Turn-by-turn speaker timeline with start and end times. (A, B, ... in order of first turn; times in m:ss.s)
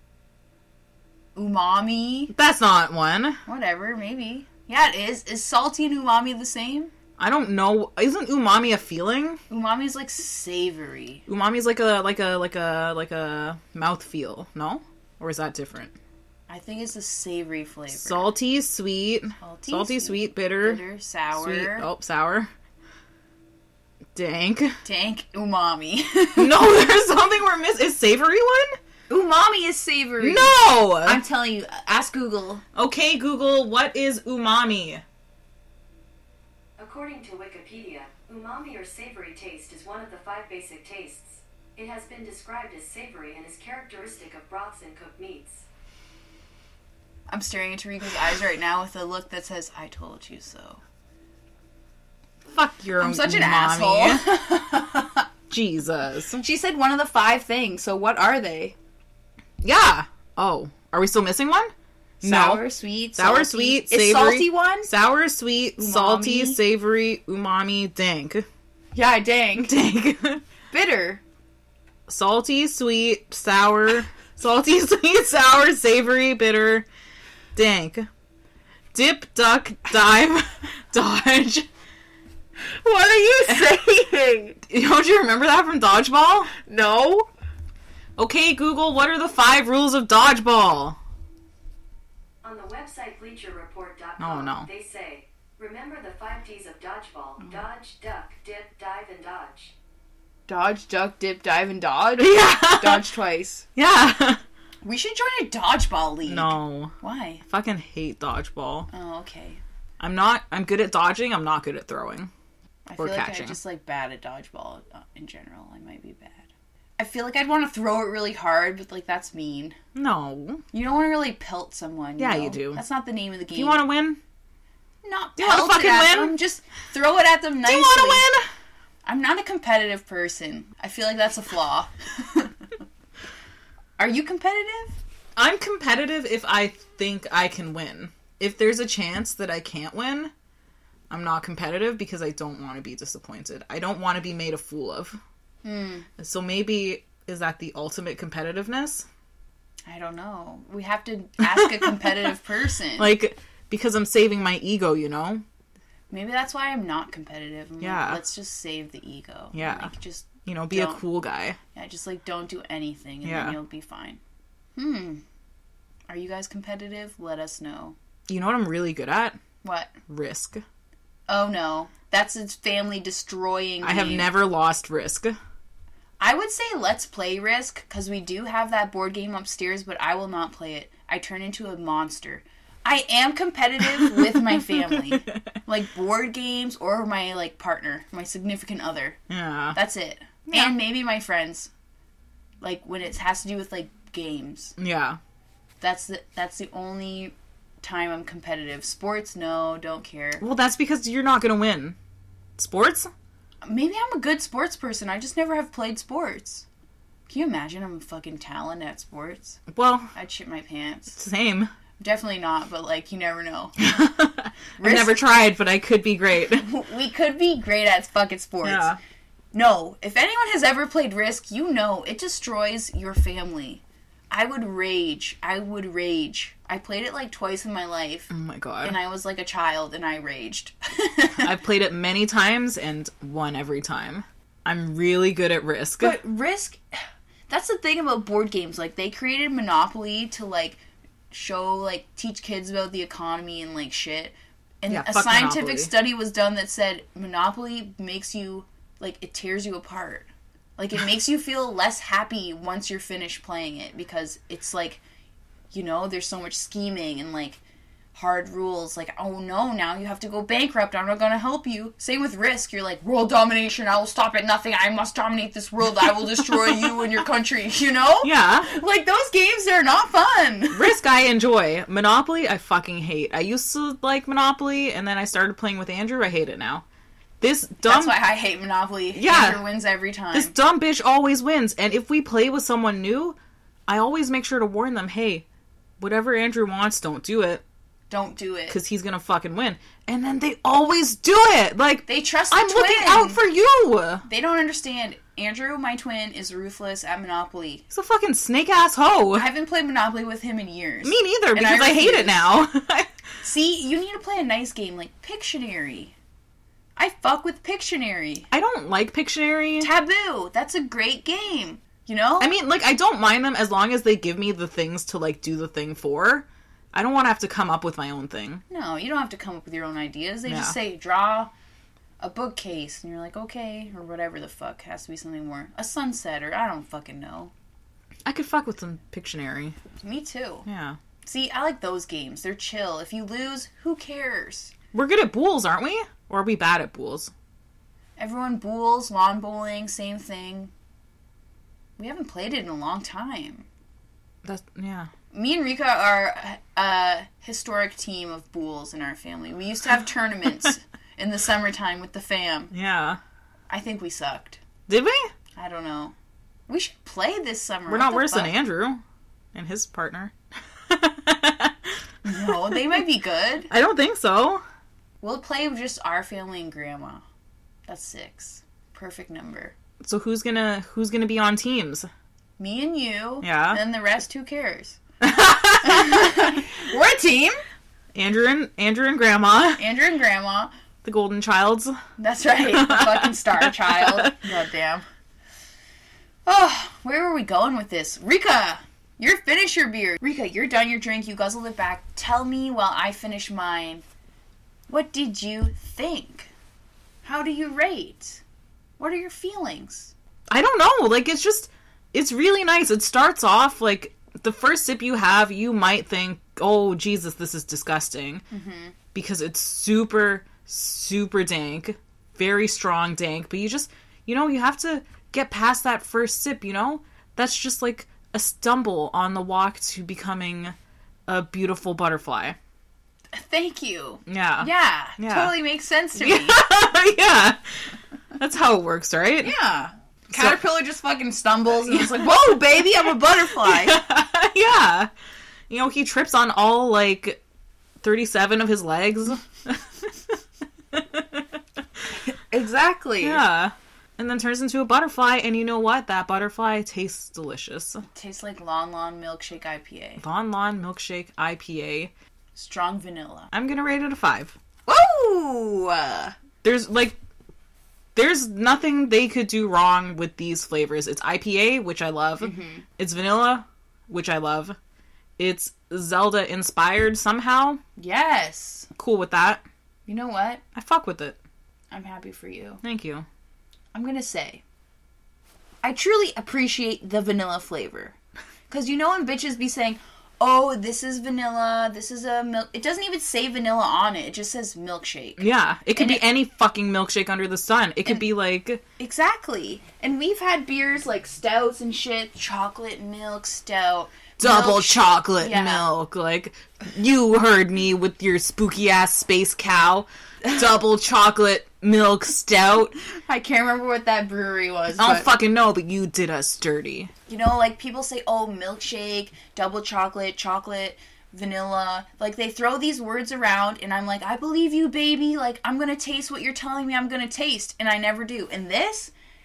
0:01.4-0:02.3 A
0:02.3-0:03.4 B
0:03.5-0:06.9 A
0:07.2-0:09.4 B
0:09.5-0:11.2 A
0:11.3-0:16.0 B
0:16.5-0:18.3 A
0:17.9-0:20.8 B
0:19.4-0:21.9 A
0:21.3-0:22.5 B
0:24.2-0:24.8 B
0:24.8-0:26.6 A
0:26.4-0:28.8 B
0:29.1-0:32.6 A
0:30.2-0:31.2 B
0:32.8-0:35.0 B
0:36.8-0:45.7 C
0:47.3-0:50.8 A
0:52.5-0:54.2 B
0:53.0-0:55.3 A
0:55.5-0:56.4 B
0:56.4-0:58.8 A
0:59.6-1:02.6 B
1:02.2-1:04.9 A
1:03.2-1:08.5 B
1:05.8-1:06.6 A
1:08.9-1:09.7 A
1:09.6-1:10.4 B
1:10.7-1:11.2 A
1:12.1-1:16.9 B
1:17.6-1:18.1 B
1:18.9-1:21.7 B
1:22.7-1:24.6 D
1:24.7-1:26.5 B
1:26.6-1:27.3 D
1:28.2-1:31.0 B
1:32.4-1:39.7 C
1:34.2-1:34.7 B
1:40.5-1:43.7 A
1:42.2-1:43.1 B
1:43.8-1:44.4 B
1:44.8-1:47.4 A
1:46.3-1:47.0 B
1:47.5-1:48.9 B
1:48.9-1:49.6 A
1:50.0-1:52.3 B
1:52.9-1:59.8 A
1:53.0-1:53.6 B
2:00.0-2:00.6 B
2:00.7-2:03.8 A
2:02.2-2:02.8 B
2:03.5-2:04.2 B
2:05.0-2:08.3 A
2:05.4-2:06.4 B
2:07.6-2:08.4 B
2:09.0-2:12.6 A
2:14.0-2:15.0 A
2:15.4-2:20.3 B
2:21.1-2:25.2 B
2:25.6-2:26.1 A
2:26.2-2:29.1 B
2:29.9-2:33.1 A
2:31.4-2:32.3 B
2:33.0-2:35.4 B
2:36.1-2:41.0 A
2:37.8-2:38.2 B
2:39.5-2:39.9 B
2:40.4-2:41.6 B
2:41.8-2:44.2 A
2:43.2-2:43.6 B
2:44.8-2:45.2 A
2:46.1-2:48.0 A
2:48.3-2:49.4 B
2:49.6-2:50.0 A
2:50.1-2:50.6 B
2:51.3-2:54.3 A
2:53.8-2:55.4 B
2:56.2-3:09.2 A
3:04.0-3:05.4 B
3:09.3-3:09.8 B
3:09.7-3:11.7 A
3:10.5-3:10.8 B
3:12.6-3:14.8 A
3:14.8-3:15.2 B
3:15.8-3:20.4 A
3:20.4-3:22.0 B
3:22.6-3:23.1 B
3:23.6-3:26.6 A
3:27.3-3:29.6 A
3:29.7-3:30.1 B
3:30.1-3:31.2 A
3:31.2-3:31.7 B
3:32.0-3:33.8 A
3:33.8-3:36.7 B
3:34.8-3:35.2 A
3:36.6-3:39.0 A
3:38.6-3:39.0 B
3:39.5-3:48.3 A
3:48.3-3:49.0 B
3:48.8-3:51.5 A
3:51.4-3:56.2 B
3:56.0-4:00.8 A
4:01.3-4:15.0 A
4:04.9-4:05.9 B
4:15.7-4:17.6 A
4:18.1-4:30.9 A
4:26.7-4:27.0 B
4:28.2-4:28.7 B
4:30.7-4:36.8 B
4:37.4-4:38.2 B
4:37.8-4:40.5 A
4:39.1-4:39.6 B
4:40.3-4:43.4 B
4:43.9-4:45.4 B
4:46.0-4:47.6 B
4:48.1-4:48.8 A
4:48.7-4:54.2 B
4:52.1-4:53.4 A
4:54.2-4:57.8 A
4:57.9-4:59.5 B
4:59.3-5:02.7 A
5:01.0-5:03.1 B
5:03.4-5:06.1 A
5:07.0-5:08.5 A
5:08.5-5:09.9 B
5:09.8-5:12.5 A
5:12.4-5:18.6 B
5:18.7-5:21.5 A
5:20.5-5:20.8 B
5:22.2-5:27.5 A
5:28.3-5:29.8 B
5:30.0-5:30.7 A
5:30.7-5:31.0 B
5:31.2-5:34.7 A
5:34.9-5:37.3 B
5:38.2-5:40.7 A
5:42.0-5:43.7 A
5:44.4-5:45.1 B
5:45.3-5:52.7 A
5:52.7-5:53.2 B
5:53.7-5:54.6 A
5:54.9-5:55.3 B
5:55.6-5:56.2 A
5:56.7-5:58.6 A
5:57.9-5:59.0 B
5:59.5-6:00.3 B
6:00.9-6:03.0 B
6:02.2-6:03.7 A
6:03.7-6:04.6 B
6:05.2-6:07.2 A
6:07.9-6:09.7 A
6:10.0-6:12.1 B
6:12.6-6:15.0 A
6:13.4-6:13.8 B
6:15.2-6:16.6 B
6:15.8-6:17.6 A
6:18.1-6:19.8 B
6:19.8-6:20.7 A
6:21.0-6:22.0 B
6:22.2-6:25.0 A
6:22.6-6:24.4 B
6:26.5-6:34.0 A
6:34.9-6:36.5 A
6:37.2-6:38.4 A
6:39.0-6:40.1 A
6:40.5-6:48.4 B
6:48.5-6:49.0 A
6:49.1-7:00.8 B
7:01.3-7:02.6 B
7:03.3-7:06.6 A
7:04.3-7:05.5 B
7:06.2-7:09.5 B
7:09.4-7:14.0 A
7:10.3-7:10.6 B
7:11.9-7:12.8 B
7:13.6-7:15.1 B
7:15.7-7:17.4 B
7:18.0-7:20.4 B
7:20.9-7:21.5 B
7:22.5-7:23.4 A
7:23.2-7:28.0 B
7:28.1-7:30.2 A
7:30.2-7:32.1 B
7:32.6-7:33.5 A
7:33.5-7:34.6 B
7:34.9-7:36.4 A
7:36.6-7:37.2 B
7:38.2-7:44.8 B
7:42.4-7:42.8 A
7:45.4-7:47.8 B
7:48.0-7:48.9 A
7:49.0-7:49.6 B
7:50.1-7:50.6 A
7:50.8-7:51.4 B
7:51.9-7:52.8 A
7:52.8-7:53.3 B
7:53.9-7:54.6 A
7:55.8-7:58.2 A
7:58.7-8:06.2 A
8:05.4-8:08.8 B
8:09.0-8:15.9 A
8:14.4-8:22.9 B
8:23.1-8:25.3 A
8:25.0-8:27.1 B
8:27.3-8:39.1 A